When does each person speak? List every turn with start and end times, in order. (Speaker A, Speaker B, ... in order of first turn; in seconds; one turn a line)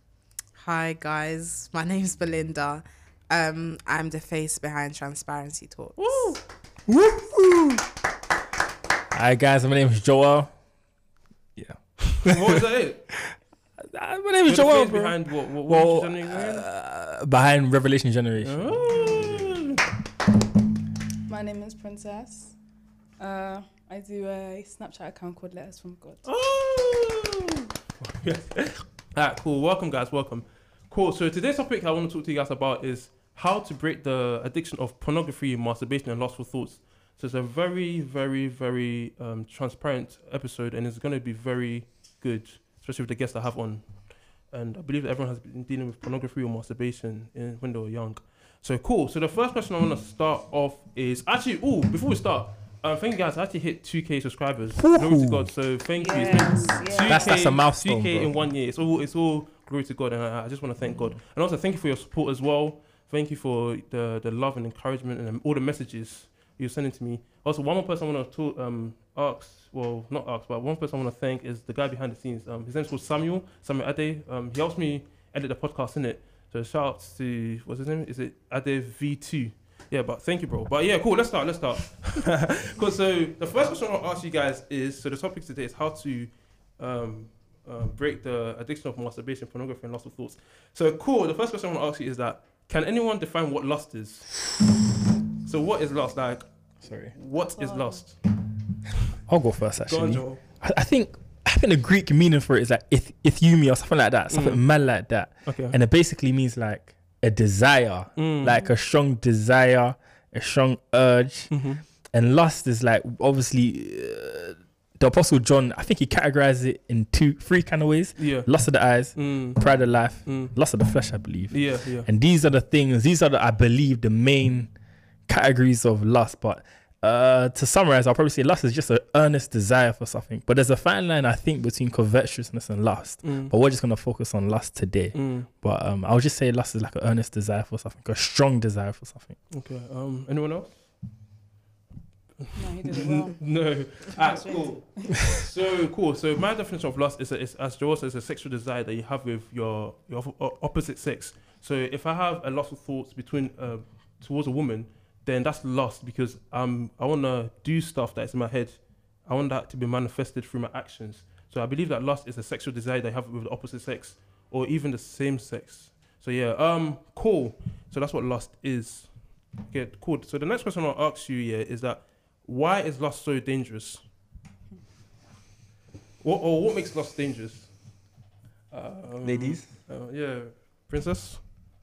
Speaker A: 0.6-6.4
Speaker B: 6.0-6.4
Speaker C: 6.9-7.9
Speaker C: 9.1-10.5
Speaker C: 11.6-12.6
Speaker B: 12.2-13.1
Speaker C: 13.1-19.6
Speaker B: 14.4-16.6
Speaker B: 18.4-19.8
Speaker D: 21.3-22.6
Speaker D: 23.2-26.2
Speaker B: 26.2-94.5
Speaker C: 54.8-55.6
Speaker D: 56.0-57.5
Speaker C: 57.0-58.3
Speaker B: 95.4-98.2
Speaker C: 96.8-97.1
Speaker D: 97.6-98.0
Speaker C: 99.2-124.7
Speaker B: 99.8-100.4
Speaker B: 104.3-104.6
Speaker B: 105.4-105.8
Speaker B: 108.2-108.6
Speaker B: 111.5-111.8
Speaker B: 118.2-118.5
Speaker B: 119.1-120.5
Speaker B: 121.5-122.1
Speaker C: 125.3-139.4
Speaker B: 133.2-133.5
Speaker B: 135.1-135.5
Speaker B: 139.5-140.9
Speaker B: 142.4-174.1
Speaker D: 142.5-145.2
Speaker B: 176.2-178.0
Speaker B: 178.7-181.4
Speaker C: 179.2-179.7